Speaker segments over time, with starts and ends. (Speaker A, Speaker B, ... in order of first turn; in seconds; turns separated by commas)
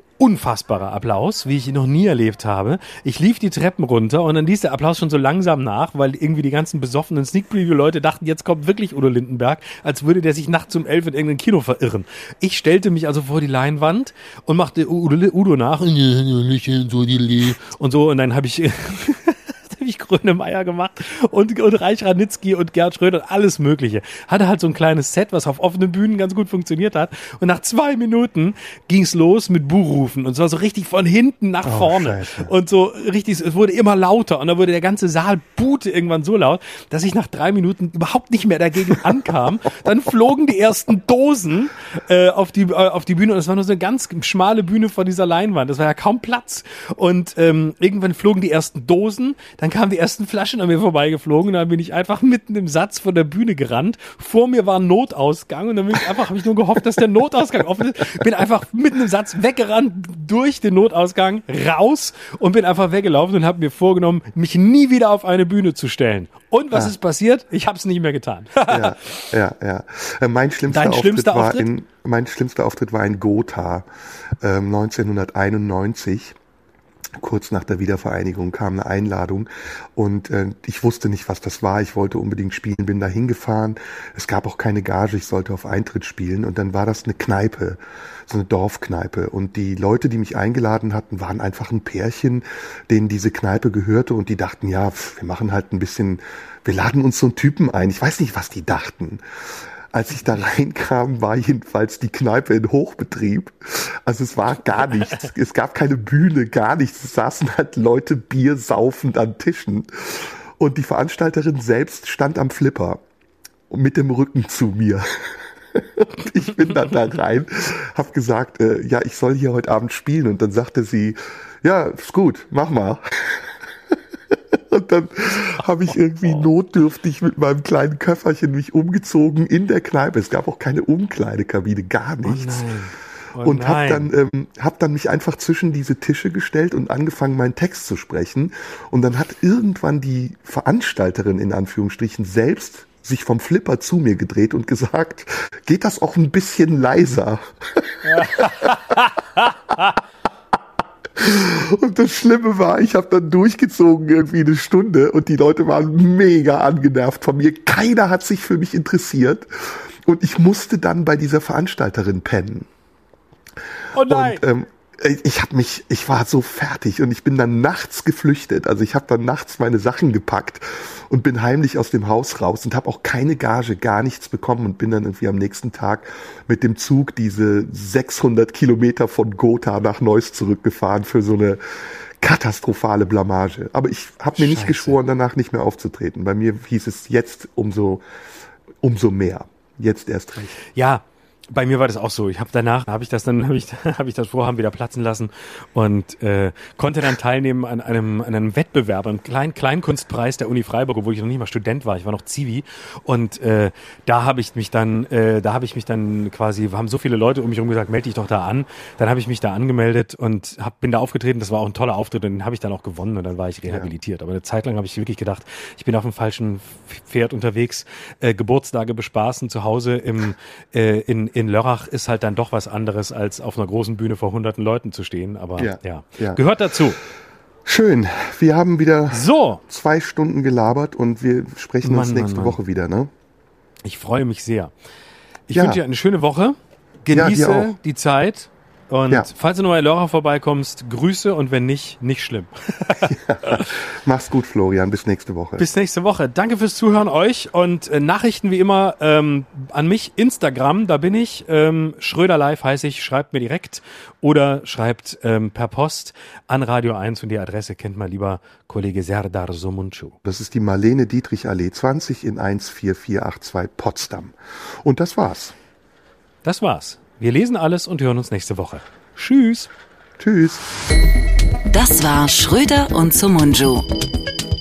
Speaker A: 0.2-69.0, Speaker B: 31.6-32.5, Speaker B: 68.7-73.9, Speaker A: 70.7-71.7, Speaker B: 74.4-76.3, Speaker B: 77.2-99.2, Speaker B: 99.9-113.0, Speaker B: 113.7-132.7, Speaker A: 132.2-134.1, Speaker B: 133.4-148.8, Speaker A: 148.0-149.9, Speaker B: 151.2-162.7, Speaker A: 163.9-164.4, Speaker B: 164.1-181.6, Speaker B: 182.2-188.0, Speaker A: 184.3-185.0, Speaker B: 188.8-190.6, Speaker A: 190.6-227.0, Speaker B: 225.6-226.4, Speaker B: 227.7-233.1, Speaker A: 229.1-229.6, Speaker A: 231.8-232.6, Speaker A: 233.8-234.7, Speaker A: 235.5-243.7, Speaker B: 235.5-235.8, Speaker B: 237.1-237.7, Speaker B: 243.0-245.6, Speaker A: 245.6-260.1, Speaker B: 260.2-265.6, Speaker A: 266.4-269.7, Speaker B: 270.2-270.7, Speaker C: 271.7-273.9